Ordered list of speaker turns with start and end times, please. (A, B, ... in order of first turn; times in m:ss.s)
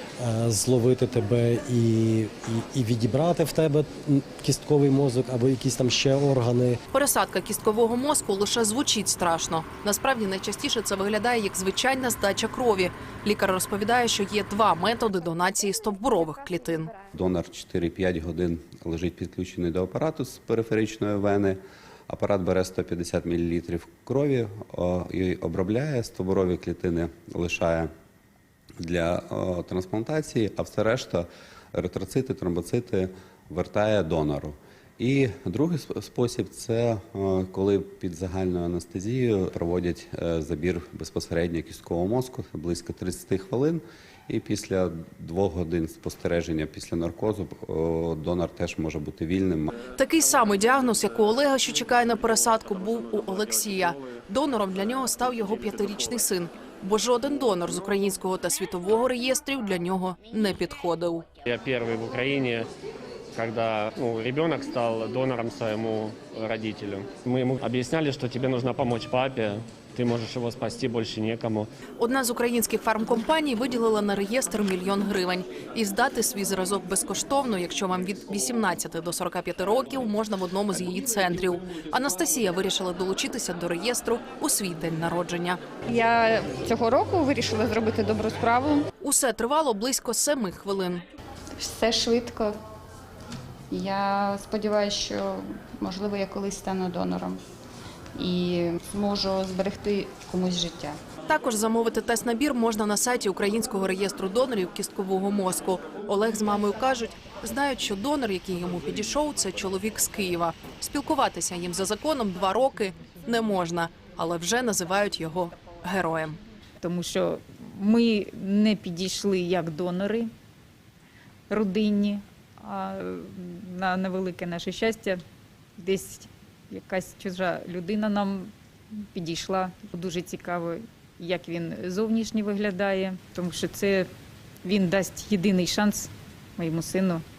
0:00.2-0:06.8 A
0:06.9-0:16.9 B
0:17.1-0:27.9 C
0:28.8-0:49.7 C
0:49.9-1:01.2 B
1:01.4-1:02.7 D
1:03.3-1:11.7 D
1:12.0-1:25.6 B
1:25.9-1:28.8 E
1:29.0-1:31.0 B
1:31.6-1:32.5 E
1:33.7-1:37.4 E
1:38.1-1:41.0 E
1:41.3-1:56.4 B
1:56.8-2:00.3 F
2:01.5-2:05.2 F
2:05.8-2:14.1 F
2:14.6-2:17.2 F